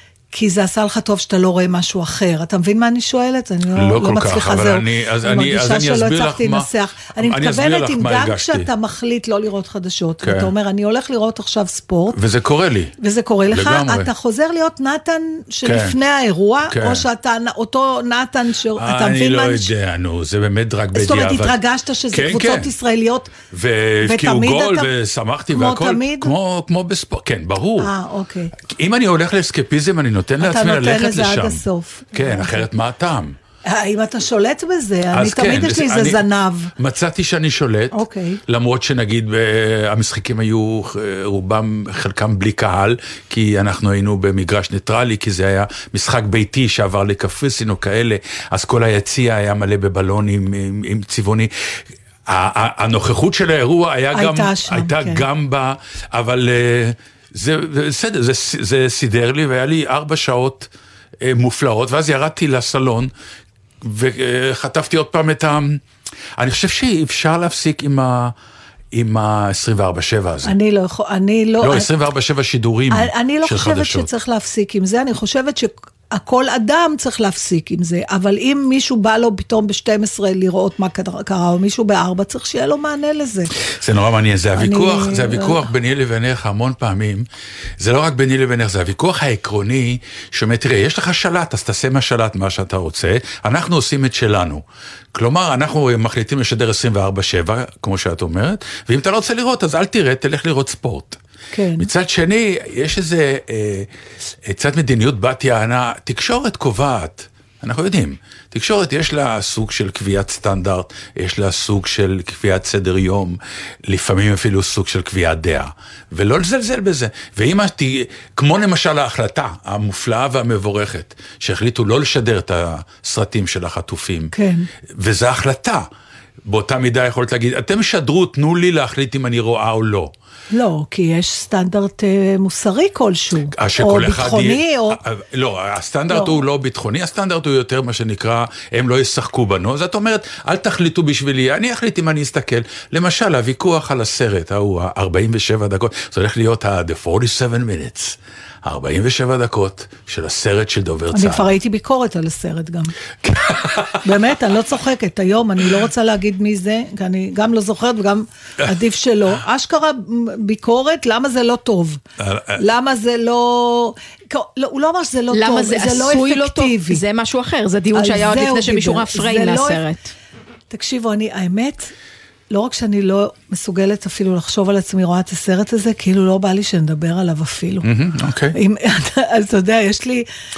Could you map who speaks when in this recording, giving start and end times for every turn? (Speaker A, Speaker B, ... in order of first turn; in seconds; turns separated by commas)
Speaker A: 0.3-12.2, Speaker B: 3.7-8.7, Speaker B: 10.2-10.5, Speaker B: 12.1-12.9, Speaker A: 13.0-19.7, Speaker B: 13.5-14.1, Speaker B: 15.6-15.9, Speaker B: 16.7-17.0, Speaker B: 18.8-21.6, Speaker A: 20.9-23.3, Speaker B: 22.1-22.7, Speaker B: 23.5-27.9, Speaker A: 24.0-24.9, Speaker A: 25.5-26.3, Speaker A: 27.8-28.5, Speaker B: 28.6-31.6, Speaker A: 30.4-32.7, Speaker B: 32.1-33.4, Speaker A: 33.6-36.7, Speaker B: 35.1-36.2, Speaker B: 36.8-60.7, Speaker A: 37.9-38.4, Speaker A: 54.1-55.2, Speaker B: 61.2-63.1, Speaker B: 63.8-65.8, Speaker B: 66.4-68.3, Speaker B: 68.9-70.5, Speaker A: 70.4-71.9, Speaker B: 71.6-74.1, Speaker A: 72.9-83.5, Speaker B: 83.7-87.2, Speaker A: 84.5-85.7, Speaker B: 87.8-101.2, Speaker A: 101.5-101.9, Speaker B: 101.8-103.9, Speaker B: 104.4-124.3, Speaker A: 124.3-124.7, Speaker B: 124.9-125.9, Speaker B: 126.4-130.1, Speaker A: 130.5-135.0, Speaker B: 133.5-151.5, Speaker A: 136.1-136.4, Speaker A: 151.1-152.9, Speaker B: 153.2-154.0, Speaker A: 154.0-162.0, Speaker B: 162.2-162.6, Speaker A: 162.6-167.0, Speaker C: 165.3-170.1, Speaker A: 167.9-169.8, Speaker A: 170.7-171.9, Speaker A: 172.5-177.9, Speaker B: 177.8-178.6, Speaker A: 178.5-180.3